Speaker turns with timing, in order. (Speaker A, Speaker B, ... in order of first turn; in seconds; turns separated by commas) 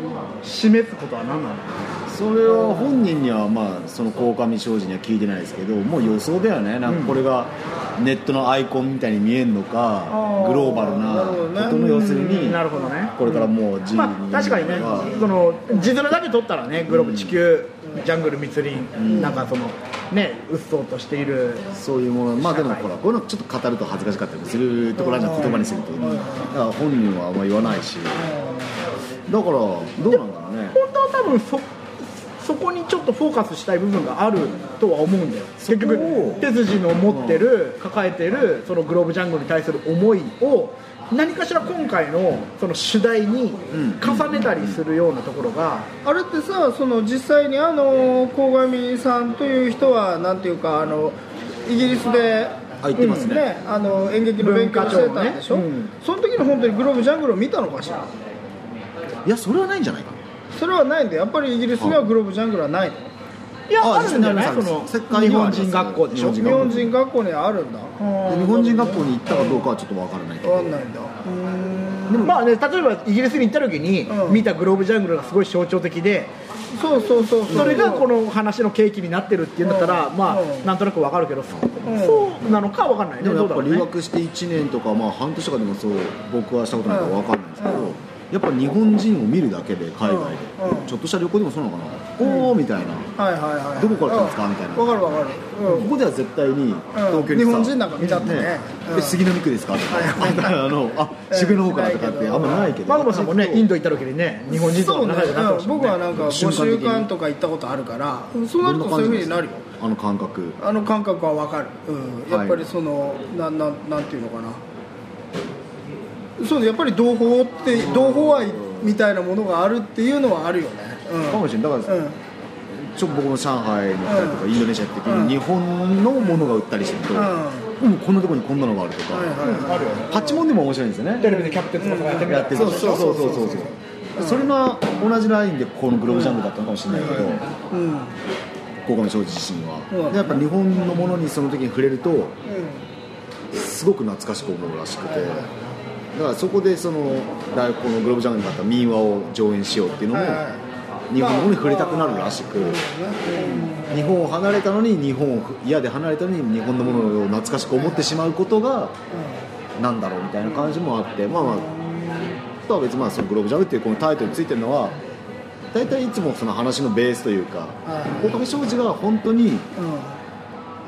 Speaker A: 0.4-1.8, Speaker B: 2.1-15.3, Speaker A: 6.9-7.2, Speaker C: 10.1-12.3, Speaker A: 11.9-13.4, Speaker A: 13.9-21.6, Speaker B: 16.9-17.4, Speaker B: 18.9-19.4, Speaker C: 19.1-19.4, Speaker B: 21.7-28.2, Speaker A: 22.4-22.9, Speaker C: 25.0-26.5, Speaker C: 28.1-28.7, Speaker B: 29.3-30.8, Speaker A: 30.7-31.7, Speaker A: 32.4-45.9, Speaker B: 35.6-36.5, Speaker C: 35.8-36.4, Speaker B: 37.0-37.5, Speaker B: 43.7-44.8, Speaker C: 46.0-58.1, Speaker B: 52.8-53.4, Speaker A: 53.0-53.3, Speaker A: 54.4-55.9, Speaker B: 59.2-60.2, Speaker C: 60.5-63.1, Speaker A: 63.7-66.6, Speaker B: 63.8-66.9, Speaker C: 66.4-69.7, Speaker B: 68.3-70.8, Speaker C: 70.4-72.3, Speaker A: 72.2-76.3, Speaker C: 74.1-74.5, Speaker C: 76.7-78.1, Speaker A: 77.5-83.9, Speaker C: 79.6-80.7, Speaker C: 81.8-82.3, Speaker B: 83.2-93.1, Speaker C: 86.9-87.9, Speaker C: 90.0-90.9, Speaker C: 92.2-92.5, Speaker C: 93.2-95.9, Speaker B: 93.8-95.0, Speaker B: 95.6-103.7, Speaker C: 96.9-99.2, Speaker C: 99.9-100.7, Speaker C: 101.3-102.8, Speaker A: 102.8-106.0, Speaker C: 104.5-109.6, Speaker B: 106.1-107.1, Speaker B: 108.6-110.6, Speaker C: 110.6-114.6, Speaker B: 112.3-112.6, Speaker C: 116.4-122.2, Speaker B: 117.7-118.9, Speaker B: 121.3-122.0, Speaker B: 122.8-129.4, Speaker C: 124.0-124.4, Speaker C: 125.0-125.4, Speaker C: 127.1-127.7, Speaker C: 129.1-130.4, Speaker A: 129.4-130.1, Speaker B: 130.1-131.3, Speaker A: 131.2-133.2, Speaker C: 131.2-134.5, Speaker B: 132.2-137.5, Speaker C: 136.9-138.2, Speaker B: 138.8-142.3, Speaker C: 139.9-140.4, Speaker C: 142.4-142.8, Speaker B: 143.5-145.5, Speaker C: 145.1-145.5, Speaker B: 146.1-150.4, Speaker C: 150.1-150.6, Speaker B: 151.1-158.9, Speaker C: 151.2-154.2, Speaker C: 159.1-159.4, Speaker B: 159.8-161.7, Speaker C: 161.3-162.3, Speaker B: 162.6-165.0, Speaker B: 165.7-169.7, Speaker C: 167.8-168.4, Speaker C: 169.8-170.2